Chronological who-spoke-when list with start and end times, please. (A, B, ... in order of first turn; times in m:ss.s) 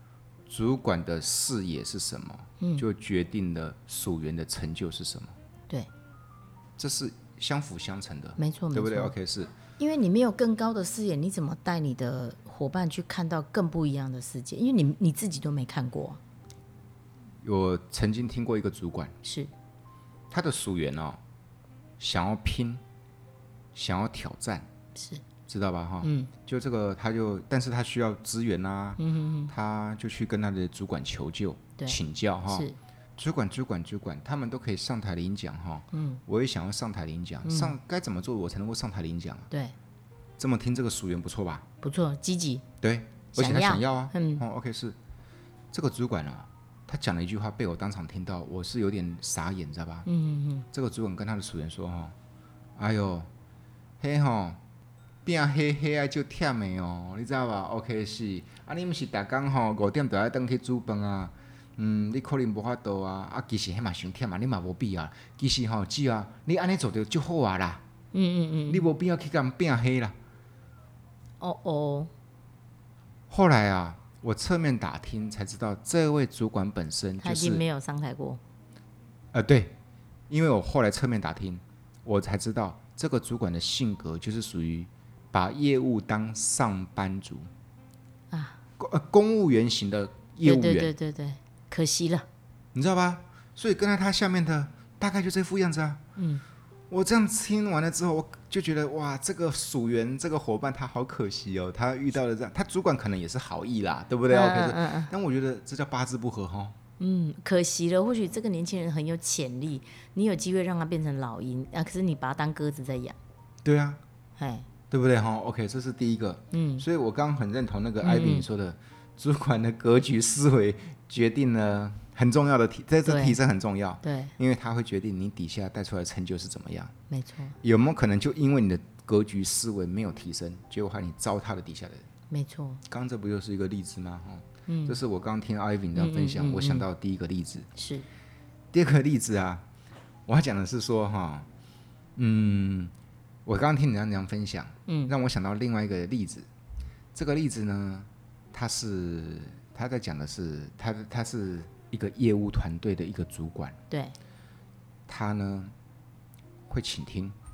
0:00.5-0:05.3 A
0:02.6-0:02.8 B
0:06.8-0:09.6 A
0:08.4-0:09.1 B
0:09.8-0:16.2 B
0:17.4-0:19.1 A
0:19.2-0:19.5 B
0:20.3-0:21.2 A
0:22.0-0:22.8 A
0:23.7-0:24.7 A
0:24.9-0:25.2 B
0:25.5-0:39.5 A
0:26.0-0:26.3 B
0:29.0-0:29.5 B
0:32.5-0:32.8 B
0:35.9-0:36.2 B
0:37.4-0:37.7 B
0:40.4-0:41.6 A
0:41.8-0:42.6 B
0:42.8-0:45.0 A
0:43.4-0:44.4 B
0:45.7-0:50.1 A
0:50.0-0:50.6 B
0:50.7-0:52.1 A
0:52.8-0:53.3 A
0:54.0-0:54.6 A
0:55.2-1:07.8 A
1:08.1-1:08.9 B
1:08.7-1:10.2 A
1:11.4-1:12.1 B
1:13.3-1:17.6 A
1:17.2-1:18.4 B
1:19.3-1:19.8 A
1:20.3-1:27.5 A
1:28.3-1:28.6 B
1:28.8-1:30.9 A
1:30.4-1:32.3 B
1:32.7-1:36.0 A
1:36.2-1:36.4 B
1:36.9-1:46.8 A
1:44.3-1:45.1 B
1:47.0-1:53.2 B
1:53.6-1:54.0 A
1:54.4-1:54.7 B
1:54.9-2:06.9 A
1:56.5-1:56.8 B
1:58.0-1:58.5 B
2:03.0-2:03.4 B
2:04.0-2:04.3 B
2:07.1-2:07.6 B
2:07.6-2:12.0 A
2:12.3-2:12.8 B
2:12.9-2:17.7 A
2:14.7-2:15.0 B
2:15.9-2:16.9 B
2:17.8-2:18.0 B
2:18.7-2:19.6 A
2:20.3-2:21.5 A
2:22.2-2:22.9 A
2:23.4-2:26.5 A
2:24.9-2:25.1 B
2:27.1-2:33.8 A
2:33.9-2:34.2 B
2:35.1-2:35.7 A
2:36.7-2:37.4 A